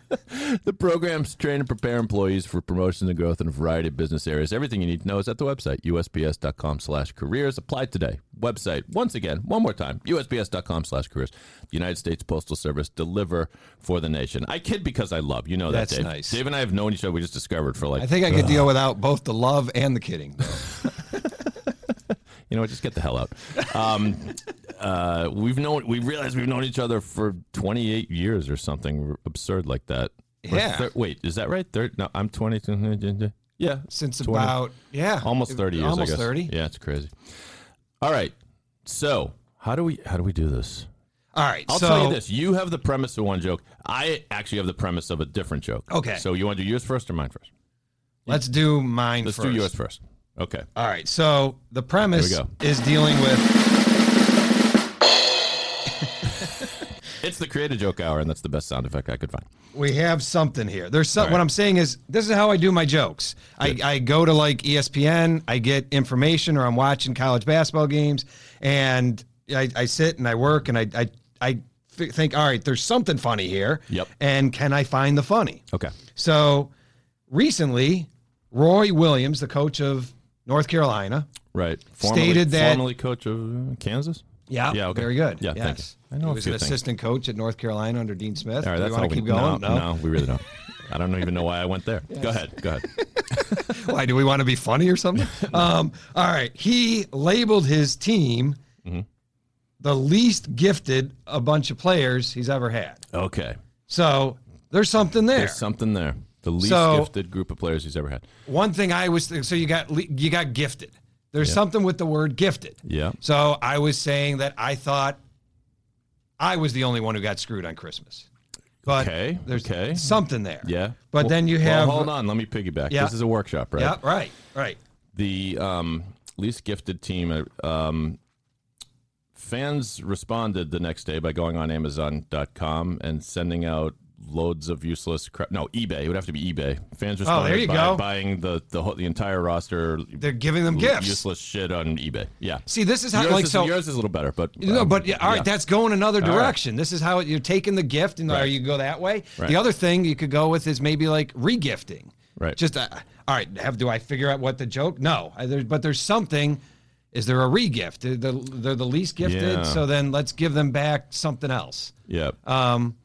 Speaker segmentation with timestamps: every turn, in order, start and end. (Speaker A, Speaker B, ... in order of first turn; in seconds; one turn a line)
Speaker A: 0.1-18.7
Speaker B: 15.7-16.4
Speaker B: 18.0-20.7
Speaker A: 22.5-34.6
Speaker B: 30.4-30.9
Speaker B: 33.9-36.5
Speaker A: 35.2-37.3
Speaker A: 38.0-40.9
Speaker B: 41.3-42.2
Speaker A: 41.7-47.5
Speaker B: 45.9-46.2
Speaker B: 48.3-49.7
Speaker A: 49.2-50.7
Speaker B: 50.8-53.6
Speaker A: 52.1-52.5
Speaker A: 57.2-59.5
Speaker B: 59.7-75.6
Speaker A: 61.2-61.4
Speaker B: 76.1-76.7
Speaker B: 77.3-81.3
Speaker A: 81.5-86.8
Speaker B: 82.0-82.8
Speaker B: 84.5-89.9
Speaker A: 88.6-93.8
Speaker B: 92.1-98.6
Speaker A: 95.3-95.6
Speaker B: 99.8-103.0
Speaker A: 103.1-103.6
Speaker B: 103.9-105.6
Speaker A: 105.3-108.2
Speaker B: 106.6-107.1
Speaker B: 108.5-115.2
Speaker A: 112.8-113.2
Speaker B: 116.4-118.3
Speaker A: 118.8-124.0
Speaker B: 118.8-122.1
Speaker B: 123.8-124.8
Speaker A: 125.1-128.2
Speaker A: 129.3-145.5
Speaker B: 137.2-138.0
Speaker B: 140.2-141.2
Speaker B: 142.7-143.8
Speaker B: 144.6-156.6
Speaker A: 146.2-146.6
Speaker A: 148.3-148.6
Speaker B: 157.1-161.9
Speaker A: 159.2-159.8
Speaker A: 162.1-162.4
Speaker B: 162.4-163.0